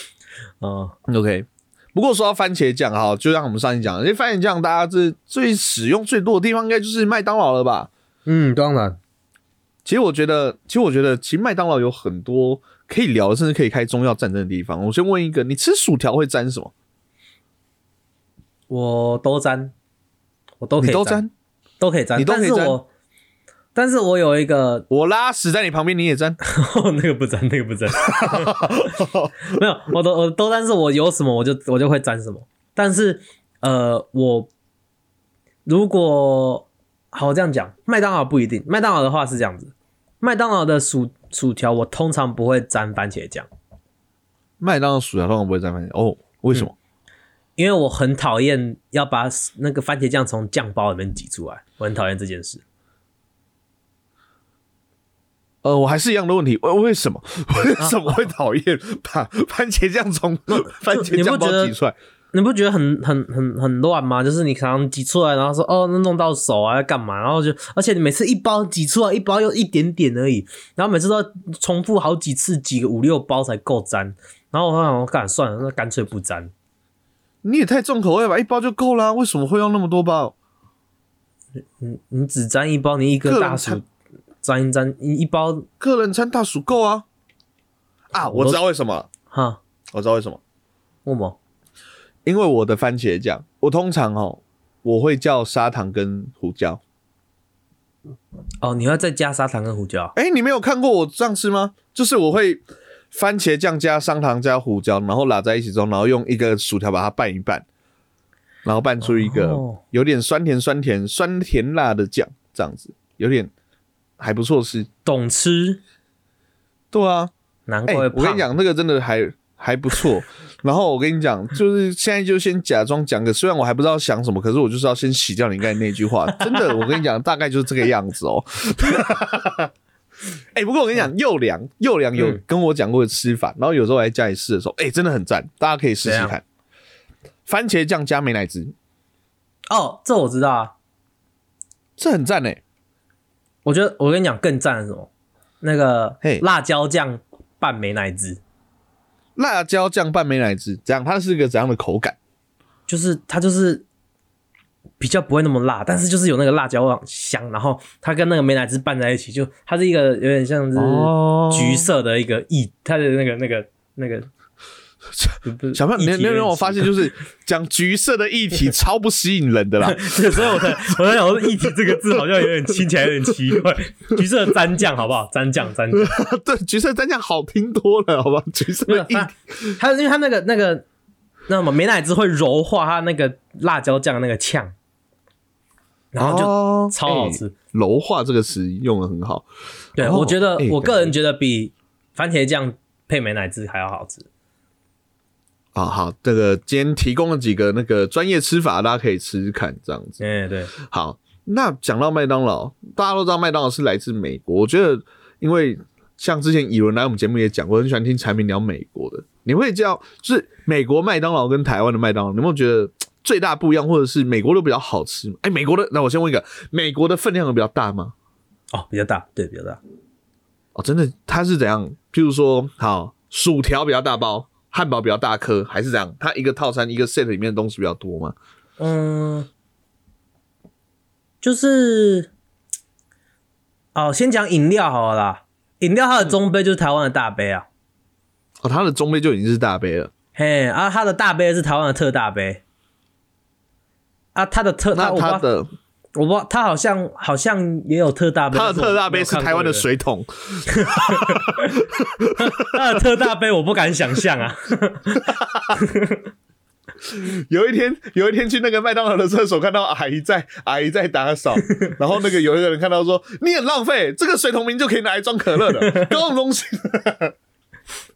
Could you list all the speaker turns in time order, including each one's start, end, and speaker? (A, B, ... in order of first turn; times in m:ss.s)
0:00.6-0:00.9 A
0:01.1-0:07.9 B
0:08.2-0:09.0 A
0:09.8-0:16.7 B
0:18.7-0:19.7 A
0:20.6-0:21.2 A
0:20.8-0:21.3 B
0:21.8-0:22.9 A
0:22.2-0:22.8 B
0:23.7-0:24.9 A
0:24.9-0:26.4 B
0:26.4-0:28.9 A
0:28.0-0:29.6 B
0:29.4-0:34.5 A
0:35.6-0:43.5 A
0:44.6-0:46.7 B
0:47.6-0:52.6 A
0:55.6-1:01.9 B
1:00.9-1:01.7 A
1:02.3-1:16.5 A
1:17.4-1:20.3 B
1:21.8-1:23.8 A
1:23.2-1:23.8 B
1:24.4-1:25.7 A
1:25.8-1:27.0 B
1:28.1-1:29.1 B
1:28.2-1:28.6 A
1:29.3-1:29.6 A
1:29.9-1:30.4 B
1:31.0-1:31.4 A
1:32.2-1:36.8 B
1:38.6-1:40.1 A
1:40.1-1:47.6 B
1:48.6-1:53.5 B
1:49.0-1:49.8 A
1:54.2-1:54.9 B
1:55.0-1:55.8 A
1:56.9-1:57.3 B
1:57.7-1:58.4 A
1:57.9-2:09.7 B
2:06.4-2:06.8 A
2:10.5-2:16.4 B
2:16.0-2:16.4 A
2:17.5-2:18.7 B
2:19.7-2:20.7 A
2:22.0-2:22.6 B
2:23.6-2:25.1 A
2:25.6-2:28.4 A
2:29.4-2:32.2 B
2:32.9-2:33.8 A
2:35.0-2:44.3 A
2:40.8-2:41.9 B
2:45.1-2:52.8 B
2:45.4-2:46.9 A
2:49.8-2:56.1 A
2:55.9-2:59.8 B
2:58.9-3:00.8 A
3:01.5-3:04.7 A
3:06.1-3:07.5 A
3:06.2-3:09.4 B
3:10.0-3:11.1 B
3:10.0-3:14.3 A
3:15.7-3:20.2 B
3:20.2-3:20.7 A
3:20.8-3:38.1 B
3:38.7-3:39.8 A
3:40.7-3:48.3 B
3:48.8-3:49.5 A
3:51.4-3:52.3 A
3:53.9-3:57.7 A
3:58.6-4:00.1 B
4:00.4-4:02.6 A
4:04.3-4:05.4 A
4:04.9-4:05.7 B
4:06.2-4:09.8 A
4:08.5-4:13.0 B
4:10.7-4:11.8 A
4:12.4-4:15.2 A
4:15.1-4:15.8 B
4:15.8-4:16.2 A
4:17.0-4:27.3 B
4:21.7-4:21.9 A
4:25.8-4:26.1 A